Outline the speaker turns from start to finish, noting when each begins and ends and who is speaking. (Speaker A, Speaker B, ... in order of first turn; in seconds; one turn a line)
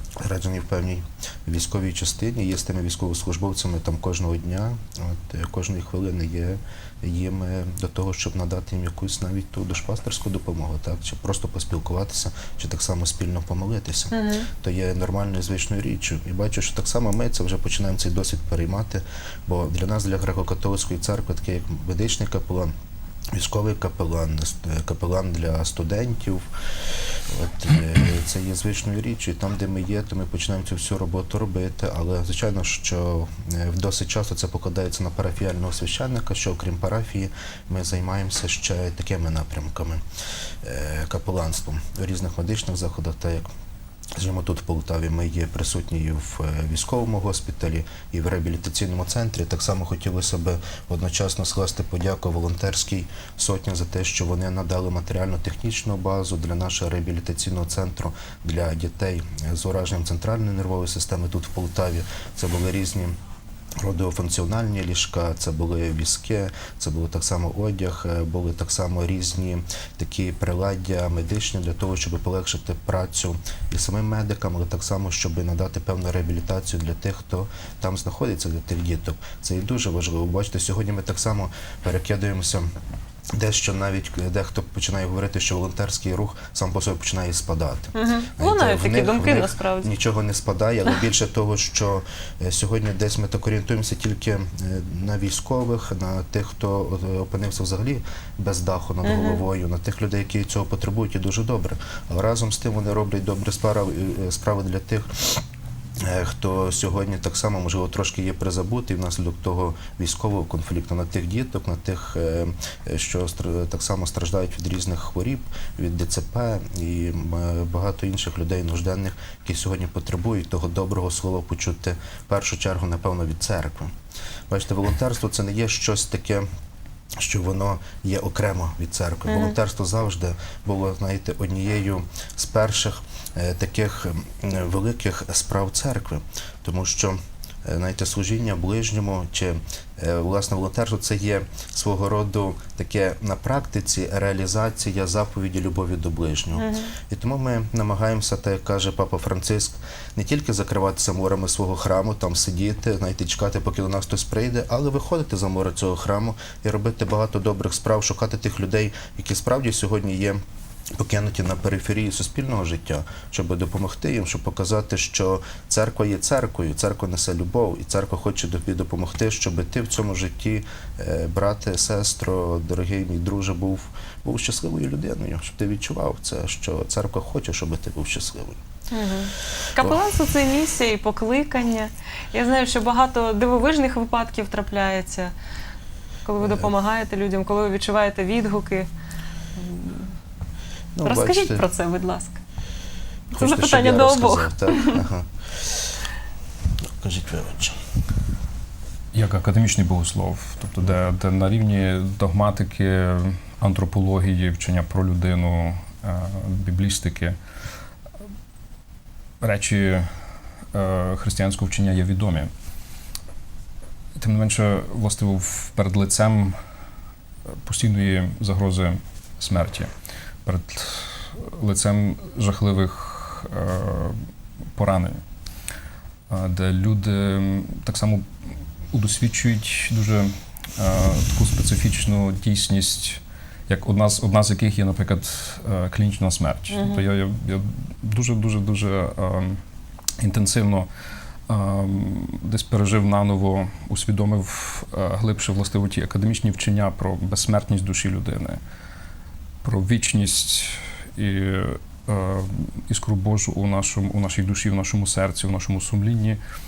Speaker A: 0.2-22.7
Speaker B: 14.1-14.5
Speaker A: 23.3-40.0
Speaker A: 40.6-43.5
Speaker A: 44.2-63.1
Speaker A: 63.8-82.7
Speaker A: 83.3-105.4
Speaker B: 88.0-89.9
Speaker B: 99.0-99.4
Speaker A: 106.0-124.0
Speaker A: 124.5-126.5
Speaker A: 127.2-160.4
Speaker B: 129.3-129.6
Speaker B: 146.6-146.9
Speaker A: 161.0-178.6
Speaker B: 178.9-185.3
Speaker B: 186.3-188.9
Speaker A: 186.4-186.7
Speaker B: 189.6-190.1
Speaker A: 190.9-191.7
Speaker B: 191.0-192.4
Speaker A: 193.3-196.0
Speaker B: 193.3-195.0
Speaker A: 197.0-197.8
Speaker C: 199.1-207.4
Speaker C: 209.4-210.1
Speaker C: 210.7-212.5
Speaker C: 214.2-216.6
Speaker C: 217.7-219.9
Speaker C: 220.4-225.2
Speaker C: 226.3-228.3
Speaker C: 228.9-239.6
Speaker B: 236.7-237.1
Speaker C: 240.2-240.9
Speaker C: 241.5-248.6
Speaker C: 249.6-256.4